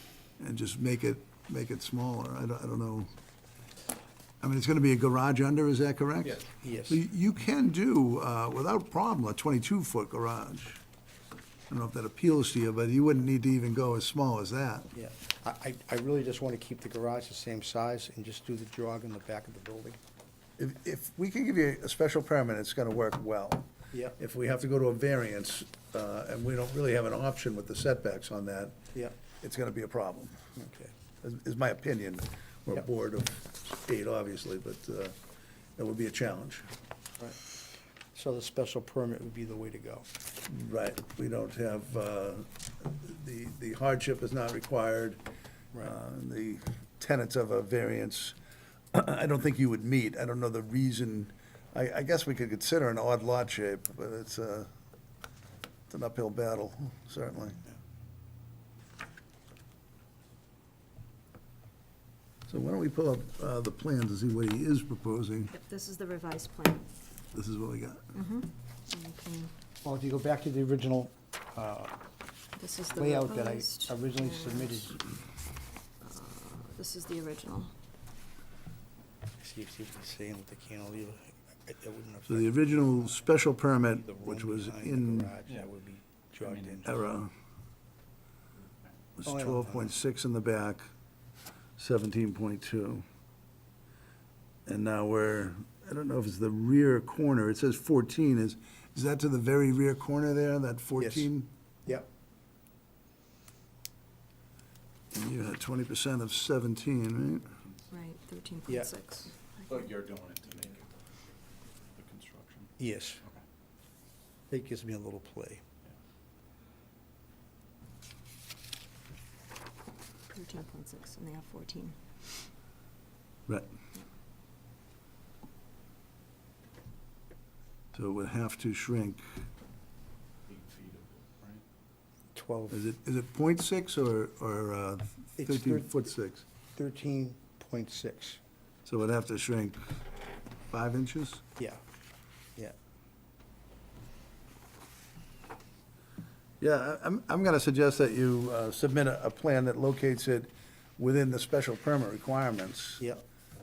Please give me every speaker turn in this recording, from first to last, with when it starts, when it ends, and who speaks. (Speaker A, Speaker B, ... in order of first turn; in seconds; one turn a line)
Speaker A: 0.4-3.1
Speaker A: 4.4-10.8
Speaker B: 6.6-7.0
Speaker A: 11.7-14.9
Speaker B: 14.9-20.0
Speaker A: 20.6-28.8
Speaker B: 23.9-24.2
Speaker A: 29.4-30.4
Speaker B: 30.6-30.9
Speaker A: 31.2-35.1
Speaker A: 35.8-36.7
Speaker B: 37.2-37.6
Speaker B: 38.1-40.1
Speaker A: 40.5-45.2
Speaker A: 45.8-48.4
Speaker A: 48.9-54.7
Speaker A: 55.9-57.6
Speaker A: 62.5-65.5
Speaker C: 65.5-66.9
Speaker A: 67.3-68.1
Speaker C: 68.1-69.5
Speaker B: 69.8-72.0
Speaker C: 72.6-74.9
Speaker B: 73.0-75.0
Speaker C: 76.0-77.7
Speaker B: 79.4-83.2
Speaker A: 82.3-85.3
Speaker B: 83.9-87.1
Speaker D: 86.4-86.8
Speaker A: 86.8-87.3
Speaker A: 89.2-90.9
Speaker B: 89.2-89.9
Speaker A: 91.8-93.0
Speaker A: 94.7-101.5
Speaker B: 101.0-101.3
Speaker A: 105.1-107.6
Speaker C: 107.9-109.9
Speaker B: 108.7-108.9
Speaker D: 109.7-110.9
Speaker D: 111.9-113.4
Speaker B: 112.8-113.2
Speaker B: 114.5-115.6
Speaker C: 120.3-122.0
Speaker A: 127.9-129.3
Speaker D: 130.5-131.6
Speaker B: 132.3-132.8
Speaker A: 132.7-136.4
Speaker B: 135.4-135.9
Speaker B: 136.8-138.4
Speaker A: 138.9-140.0
Speaker A: 140.7-141.4
Speaker A: 146.6-153.1